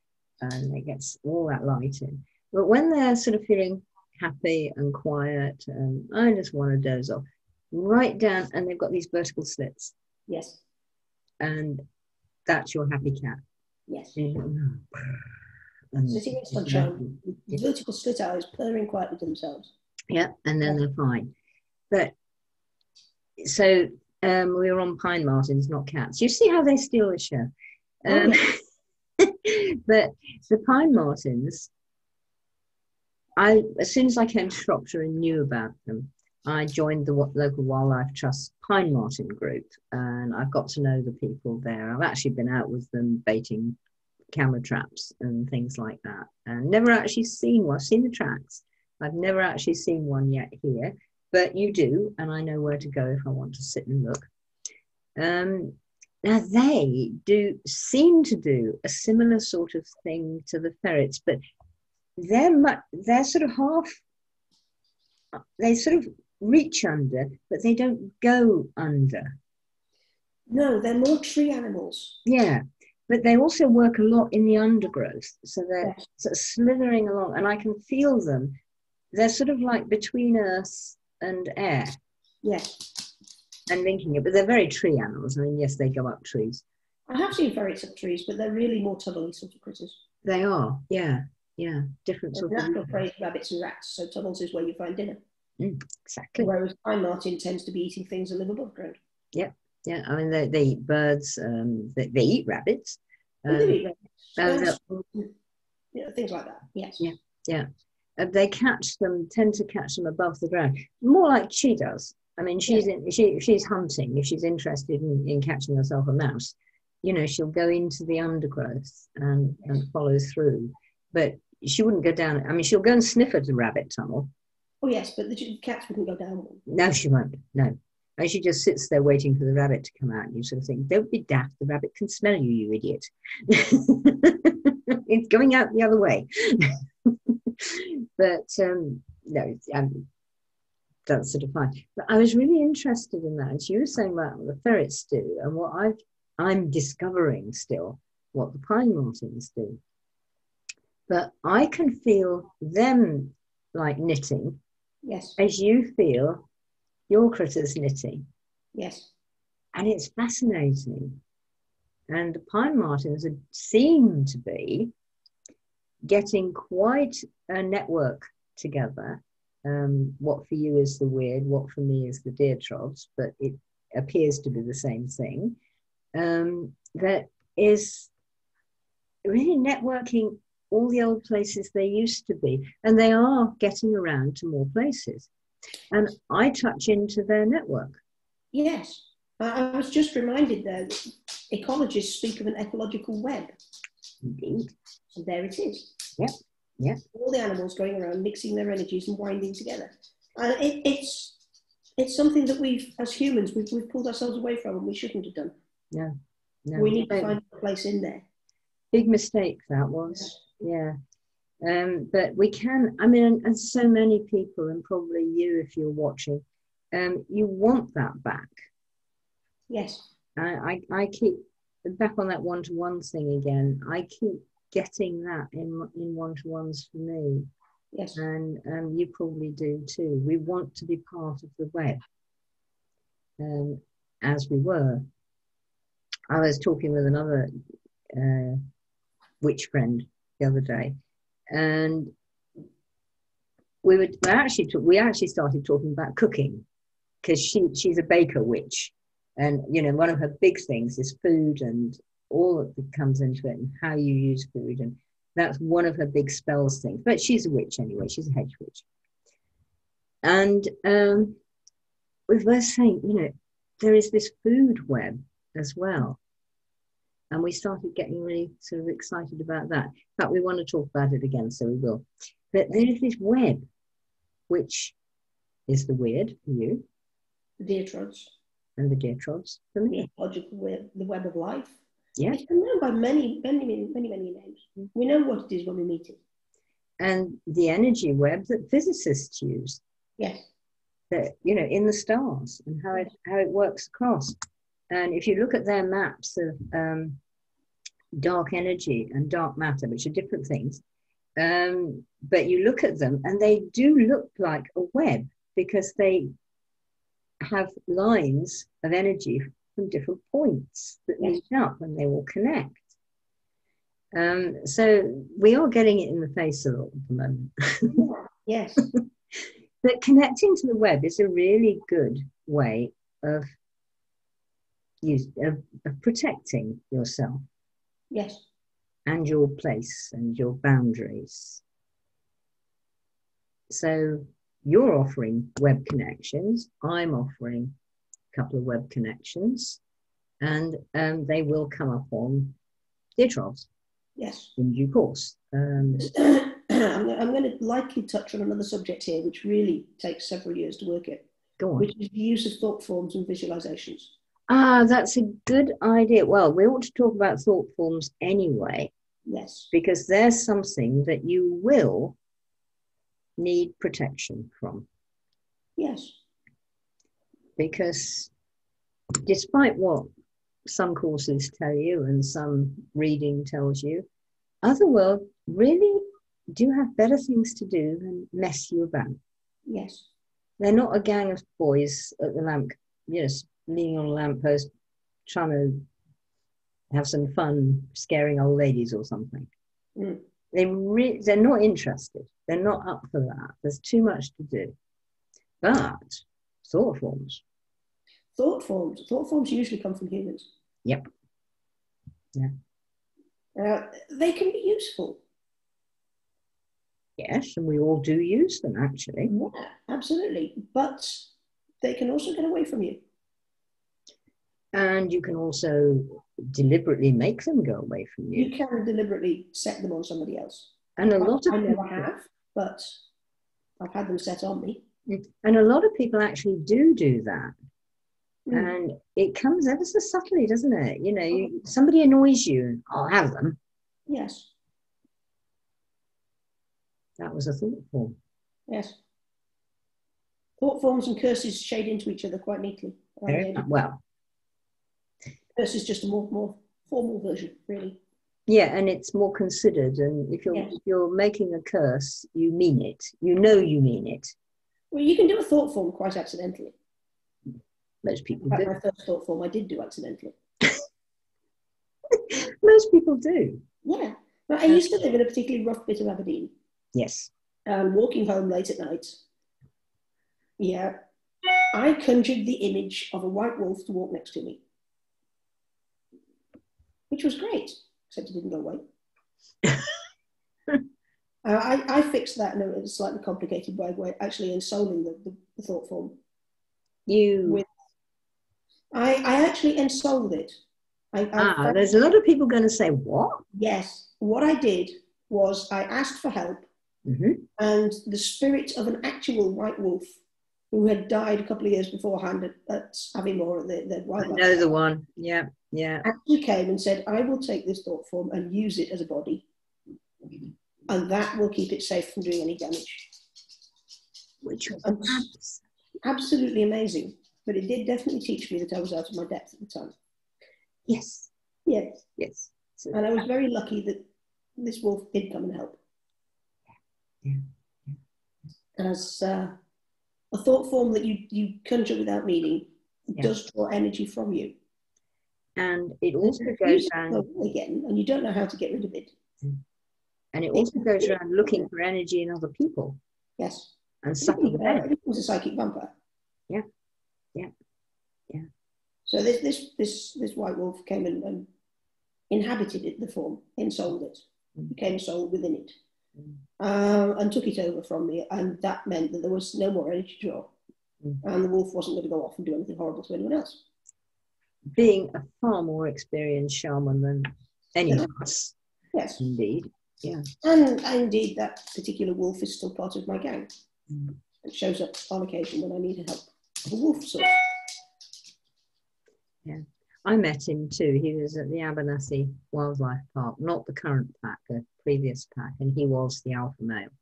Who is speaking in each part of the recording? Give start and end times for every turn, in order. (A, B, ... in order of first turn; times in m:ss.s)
0:00.4-0:09.9 A
0:10.3-0:10.6 B
0:11.4-0:11.8 A
0:12.5-0:13.4 A
0:13.9-0:14.2 B
0:14.2-0:15.4 A
0:15.9-0:17.6 A
0:16.1-0:19.7 B
0:20.1-0:21.3 A
0:23.4-0:27.5 A
0:28.0-0:28.6 A
0:28.1-0:28.4 B
0:29.2-0:31.7 A
0:33.4-0:43.8 A
0:44.3-0:54.3 A
0:55.2-1:01.4 A
1:02.2-1:04.0 A
1:05.6-1:09.4 A
1:10.5-1:12.2 B
1:12.2-1:18.6 A
1:19.1-1:21.9 A
1:22.4-1:23.1 B
1:23.7-1:26.6 A
1:27.1-1:30.0 B
1:30.2-1:33.0 A
1:32.3-1:35.2 B
1:35.6-1:36.5 A
1:36.4-1:39.0 B
1:39.3-1:43.8 A
1:43.5-1:45.3 B
1:44.4-1:44.8 A
1:45.9-1:47.0 B
1:47.0-1:47.7 A
1:48.2-2:04.3 A
2:04.8-2:06.6 B
2:06.7-2:20.1 A
2:21.1-2:29.8 A
2:31.1-2:34.6 A
2:35.0-2:35.4 B
2:35.4-2:36.4 A
2:37.1-2:38.3 A
2:38.7-2:39.1 B
2:39.7-2:41.2 A
2:42.1-2:44.9 A
2:46.0-2:55.6 A
2:56.1-2:58.1 A
2:59.2-3:05.3 A
3:05.9-3:08.0 A
3:08.5-3:13.5 B
3:14.2-3:14.7 A
3:15.1-3:15.9 B
3:16.2-3:17.0 A
3:17.1-3:21.4 B
3:22.0-3:25.5 B
3:26.6-3:27.4 A
3:26.7-3:28.2 B
3:28.9-3:31.0 A
3:31.6-3:38.5 A
3:39.7-3:40.0 B
3:40.4-3:47.5 A
3:47.9-3:48.2 B
3:48.2-3:52.0 A
3:53.4-3:55.0 A
3:56.3-3:57.5 A
3:58.1-3:58.6 A
3:59.4-4:01.0 A
4:01.5-4:02.1 A
4:03.8-4:06.6 A
4:07.2-4:18.8 A
4:20.2-4:21.4 A
4:22.3-4:26.2 A
4:27.3-4:33.6 A
4:34.5-4:34.9 A
4:35.7-4:36.8 A
4:37.6-4:38.3 B
4:38.8-4:40.1 A
4:39.9-4:41.8 B
4:42.3-4:46.2 B
4:47.0-4:49.8 A
4:50.2-4:50.5 B
4:51.1-4:54.4 A
4:54.9-4:57.2 A
4:58.2-5:00.8 A
5:01.4-5:06.3 A
5:07.4-5:12.9 A
5:14.1-5:18.0 A
5:17.9-5:18.8 B
5:19.8-5:23.4 A
5:25.0-5:27.4 A
5:28.1-5:28.4 B
5:29.1-5:31.6 A
5:33.7-5:37.8 A
5:38.3-5:39.8 A
5:40.4-5:42.6 A
5:43.2-5:43.7 A
5:44.2-5:44.5 B
5:44.6-5:46.1 A
5:46.0-5:51.2 B
5:51.6-5:51.9 A
5:51.8-5:54.1 B
5:54.5-5:58.9 A
5:59.3-5:59.7 B
5:59.7-6:02.2 A
6:03.4-6:04.9 A
6:05.8-6:06.2 B
6:07.6-6:08.3 A
6:09.2-6:10.1 A
6:10.6-6:14.1 A
6:14.6-6:19.2 A
6:19.7-6:20.1 B
6:20.6-6:24.7 A
6:25.2-6:25.9 A
6:26.9-6:29.5 A
6:30.0-6:30.2 B
6:30.5-6:34.8 A
6:35.6-6:37.4 A
6:38.3-6:40.5 B
6:43.6-6:45.2 B
6:47.2-6:49.3 A
6:49.2-6:51.3 B
6:51.8-6:53.0 B
6:54.7-6:58.5 A
6:58.3-7:03.0 B
7:01.0-7:02.1 A
7:03.8-7:04.8 B
7:05.1-7:07.5 A
7:08.4-7:08.7 B
7:08.5-7:13.6 A
7:14.1-7:14.5 B
7:17.2-7:18.2 A
7:18.7-7:19.0 B
7:20.6-7:23.6 B
7:23.3-7:24.0 A
7:25.6-7:28.0 B
7:28.5-7:34.3 A
7:34.9-7:36.7 B
7:38.0-7:38.7 A
7:38.5-7:40.3 B
7:42.1-7:43.6 A
7:43.8-7:46.5 B
7:46.9-7:47.3 A
7:47.7-7:49.2 B
7:50.6-7:51.0 B
7:51.7-7:54.6 B
7:57.1-7:58.8 B
7:59.6-8:00.0 A
8:01.4-8:06.2 B
8:07.1-8:07.6 A
8:08.9-8:10.6 B
8:11.1-8:11.8 B
8:11.4-8:13.4 A
8:13.5-8:16.7 B
8:17.0-8:17.5 A
8:17.6-8:20.2 B
8:20.7-8:24.6 B
8:24.2-8:26.1 A
8:26.0-8:29.4 B
8:30.9-8:33.1 B
8:34.4-8:35.6 A
8:34.8-8:35.2 B
8:36.0-8:39.9 B
8:40.9-8:41.3 A
8:41.6-8:42.0 B
8:42.2-8:43.0 A
8:42.9-8:44.0 B
8:44.6-8:45.8 B
8:47.2-8:47.9 A
8:48.8-8:49.5 B
8:50.3-8:54.5 B
8:55.6-8:57.2 A
8:56.2-8:59.1 B
9:00.3-9:03.0 A
9:00.5-9:01.1 B
9:03.4-9:05.9 B
9:04.0-9:04.9 A
9:09.0-9:11.5 B
9:12.3-9:15.7 B
9:16.6-9:20.5 B
9:21.2-9:23.6 B
9:24.7-9:28.6 A
9:28.9-9:29.2 B
9:29.2-9:30.3 A
9:30.4-9:33.5 B
9:33.9-9:34.2 A
9:34.4-9:37.4 B
9:39.4-9:46.9 A